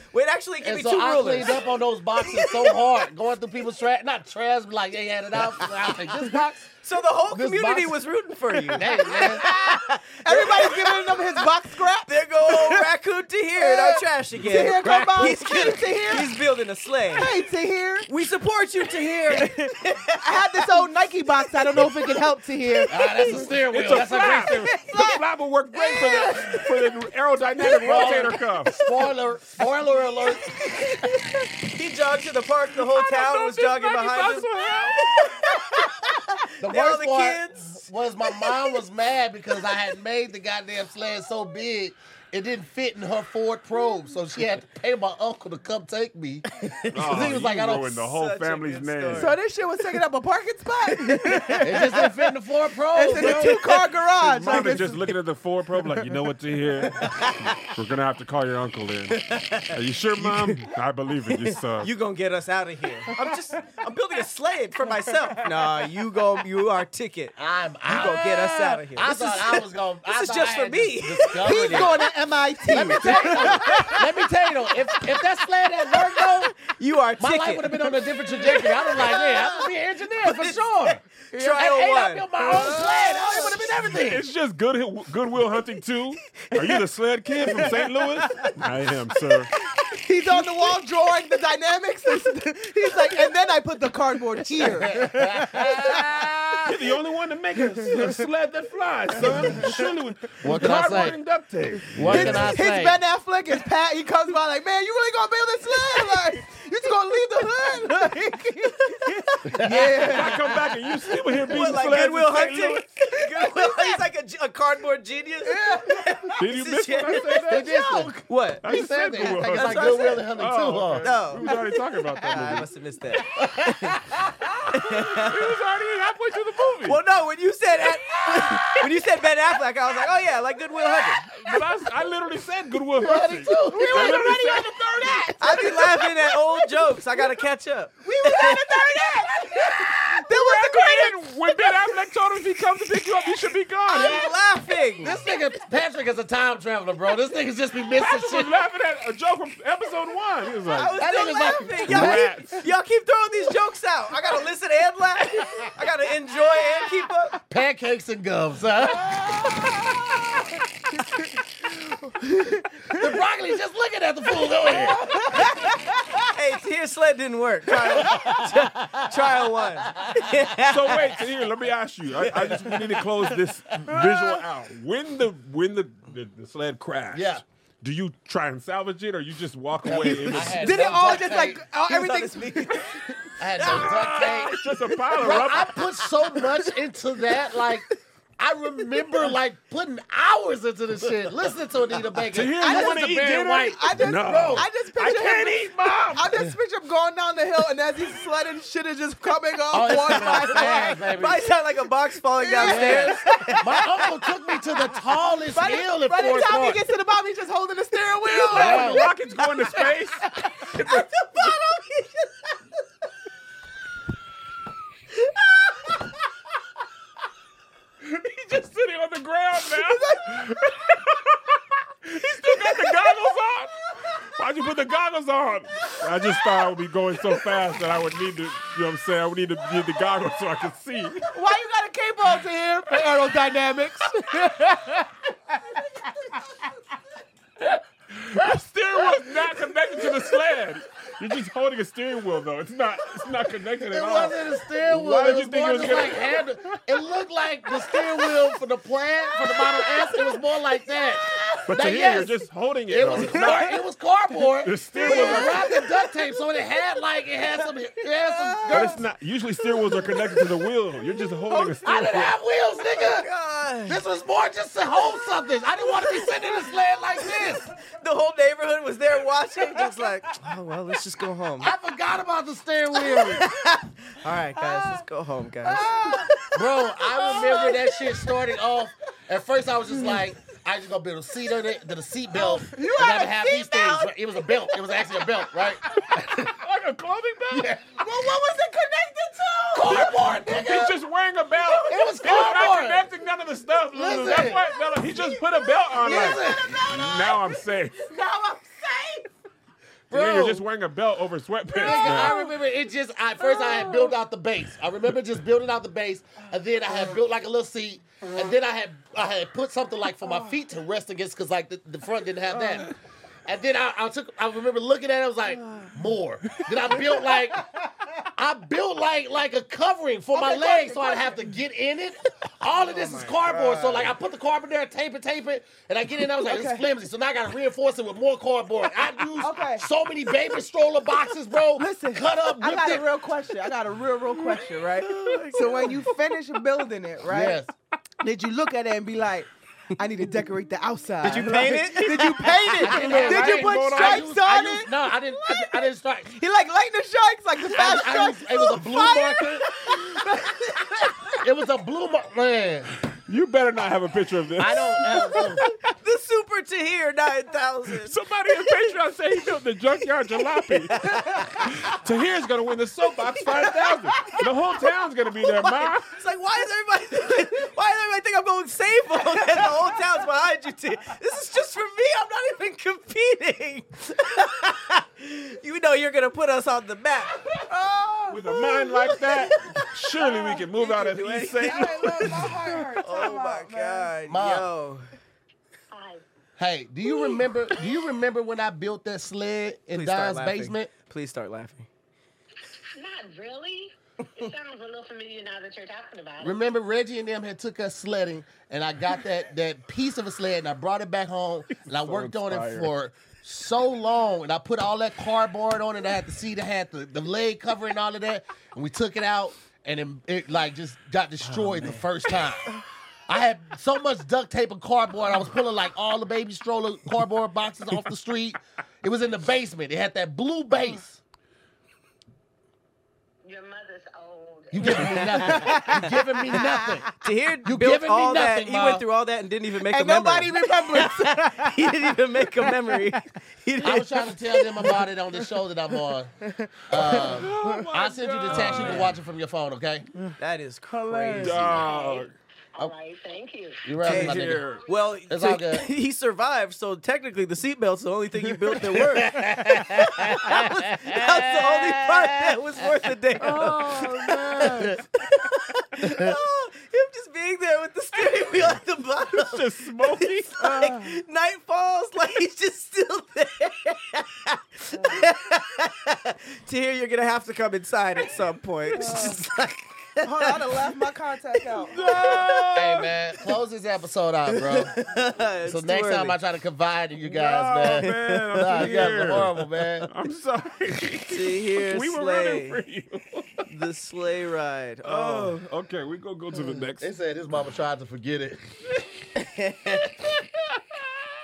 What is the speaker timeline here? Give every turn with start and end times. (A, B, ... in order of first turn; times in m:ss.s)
0:00.1-0:01.7 A
0:00.6-0:06.8 B
0:02.2-0:02.9 A
0:06.8-0:17.4 A
0:07.3-0:08.0 B
0:08.7-0:12.9 C
0:08.7-0:09.6 B
0:13.6-0:16.4 C
0:14.6-0:15.8 B
0:17.1-0:18.1 C
0:18.1-0:20.9 A
0:19.3-0:23.5 C
0:22.9-0:24.7 B
0:23.6-0:28.7 D
0:24.4-0:25.2 C
0:25.7-0:26.9 C
0:27.6-0:28.2 C
0:27.8-0:31.2 B
0:31.6-0:37.8 A
0:33.0-0:35.4 D
0:36.6-0:48.0 B
0:46.6-0:47.3 A
0:46.9-0:49.3 D
0:48.0-0:50.0 A
0:49.1-0:52.1 C
0:50.8-0:52.1 A
0:51.6-0:53.8 B
0:52.9-0:55.1 C
0:53.2-0:53.8 A
0:54.2-1:01.9 D
0:57.0-0:57.6 A
0:59.1-1:00.7 A
1:01.3-1:07.4 A
1:07.4-1:12.0 B
1:07.9-1:12.1 A
1:11.4-1:14.1 C
1:12.7-1:16.6 B
1:12.7-1:14.1 A
1:14.9-1:15.2 A
1:15.8-1:22.8 A
1:17.2-1:21.0 B
1:21.3-1:21.7 C
1:21.5-1:24.3 B
1:22.4-1:23.7 C
1:24.0-1:29.5 D
1:27.5-1:27.8 C
1:29.9-1:36.1 C
1:30.3-1:30.8 A
1:34.6-1:36.7 B
1:36.6-1:42.6 D
1:39.2-1:39.6 B
1:39.2-1:39.9 C
1:40.4-1:41.2 B
1:40.6-1:41.0 C
1:41.9-1:43.0 B
1:42.0-1:51.5 C
1:49.5-1:50.1 B
1:49.9-1:52.9 D
1:51.5-1:57.6 A
1:53.3-1:54.0 C
1:55.4-1:56.4 C
1:56.4-1:57.7 D
1:57.2-1:58.2 C
1:57.5-2:01.1 B
1:58.2-1:58.6 A
1:58.6-2:02.7 D
1:59.5-2:00.3 A
2:01.0-2:01.5 A
2:01.4-2:02.5 C
2:02.2-2:04.0 A
2:03.3-2:04.5 B
2:04.7-2:05.5 A
2:04.7-2:07.0 D
2:06.8-2:11.3 A
2:11.4-2:15.1 D
2:13.0-2:14.4 B
2:13.6-2:17.4 C
2:15.4-2:19.1 A
2:18.0-2:22.0 C
2:19.4-2:20.2 B
2:20.3-2:24.3 D
2:23.9-2:25.2 A
2:24.0-2:24.2 C
2:25.0-2:28.5 B
2:28.0-2:31.0 D
2:30.7-2:37.4 A
2:31.0-2:32.3 B
2:31.9-2:32.6 D
2:37.5-2:40.6 B
2:42.0-2:43.1 C
2:42.9-2:45.5 B
2:44.6-2:45.9 C
2:45.3-2:45.7 A
2:46.2-2:51.2 A
2:47.9-2:50.3 B
2:50.6-3:00.7 D
2:52.4-2:52.9 A
2:53.9-2:54.4 C
2:57.1-2:57.4 B
2:59.8-3:01.6 B
3:00.0-3:00.6 A
3:00.6-3:03.1 C
3:01.8-3:03.0 A
3:03.4-3:04.6 B
3:03.6-3:04.0 A
3:03.6-3:05.9 D
3:05.2-3:07.9 B
3:06.0-3:06.5 A
3:08.4-3:14.7 B
3:12.3-3:16.4 D
3:12.6-3:21.1 C
3:19.7-3:21.5 B
3:20.0-3:23.9 A
3:22.4-3:24.1 C
3:22.6-3:26.8 B
3:25.5-3:29.1 C
3:28.3-3:31.1 D
3:28.5-3:29.1 B
3:30.2-3:30.7 C
3:30.7-3:32.5 A
3:35.2-3:36.0 A
3:38.0-3:51.2 D
3:39.9-3:40.2 C
3:51.3-3:55.1 C
3:58.1-4:06.8 D
4:03.8-4:12.4 B
4:09.6-4:10.0 A
4:11.7-4:13.7 D
4:12.9-4:19.0 B
4:14.6-4:15.6 D
4:15.0-4:15.8 A
4:15.2-4:15.5 C
4:18.2-4:19.0 A
4:18.7-4:22.3 D
4:21.8-4:23.3 B
4:22.9-4:24.0 A
4:23.9-4:27.7 B
4:25.9-4:26.5 A
4:27.2-4:31.7 A
4:31.6-4:33.5 B
4:33.0-4:37.9 A
4:34.6-4:35.0 C
4:35.6-4:36.3 C
4:36.5-4:46.5 B
4:37.2-4:37.9 C
4:42.3-4:44.2 C
4:46.4-4:47.7 D
4:47.5-4:47.9 B
4:48.0-4:50.1 C
4:49.7-4:51.0 B
4:49.9-4:58.0 D
4:51.7-4:52.5 A
4:51.9-4:53.1 B
4:53.9-4:54.6 B
4:56.0-4:56.8 B
4:56.0-4:59.2 C
5:00.1-5:00.6 B
5:00.1-5:02.4 D
5:01.8-5:02.4 C
5:01.8-5:12.9 B
5:13.5-5:17.7 B
5:18.3-5:33.1 B
5:20.3-5:21.4 C
5:22.8-5:24.1 A
5:26.4-5:26.8 C
5:29.4-5:29.9 C
5:31.8-5:37.6 C
5:34.4-5:36.1 A
5:37.3-5:37.7 B
5:38.2-5:51.3 C
5:41.2-5:43.1 A
5:42.8-5:46.3 B
5:42.8-5:44.3 D
5:47.7-5:49.7 B
5:51.4-5:52.9 B
5:53.1-5:55.1 D
5:54.6-5:55.6 B
5:55.3-5:58.2 A
5:58.0-6:06.1 D
6:00.9-6:01.6 A
6:05.4-6:17.4 A
6:17.6-6:19.4 C
6:18.3-6:22.5 D
6:19.6-6:19.8 A
6:20.2-6:20.6 C
6:20.7-6:25.1 A
6:21.6-6:24.1 C
6:24.3-6:24.7 B
6:25.9-6:26.2 E
6:26.6-6:30.9 B
6:29.9-6:31.9 A
6:33.0-6:36.6 E
6:36.4-6:52.7 B
6:41.8-6:42.9 D
6:51.5-6:52.0 A
6:53.3-7:01.2 B
7:03.4-7:05.7 E
7:04.7-7:07.1 B
7:05.0-7:07.0 C
7:07.2-7:14.3 A
7:07.6-7:09.0 B
7:09.8-7:13.2 C
7:13.8-7:16.3 B
7:14.5-7:15.1 C
7:16.6-7:17.6 C
7:16.9-7:20.0 B
7:17.0-7:19.1 D
7:18.5-7:19.1 A
7:20.4-7:21.9 A
7:20.9-7:21.8 C
7:21.3-7:22.3 D
7:21.7-7:23.9 E
7:23.8-7:24.6 B
7:24.0-7:24.8 D
7:24.0-7:33.9 A
7:25.3-7:25.9 B
7:28.9-7:32.6 B
7:33.4-7:35.0 D
7:33.4-7:34.9 C
7:35.2-7:51.0 A
7:36.0-7:36.3 B
7:39.3-7:40.9 D
7:40.6-7:41.2 C
7:45.0-7:45.2 C
7:48.9-7:49.4 C
7:50.2-7:52.4 C
7:51.8-7:53.1 D
7:52.0-7:52.9 A
7:52.8-7:55.0 B
7:54.5-7:56.4 A
7:55.7-8:00.1 B
7:57.2-8:03.6 D
7:57.9-7:59.0 A
8:01.3-8:02.8 A
8:03.7-8:05.6 A
8:05.0-8:07.1 D
8:07.0-8:08.6 B
8:09.4-8:10.2 A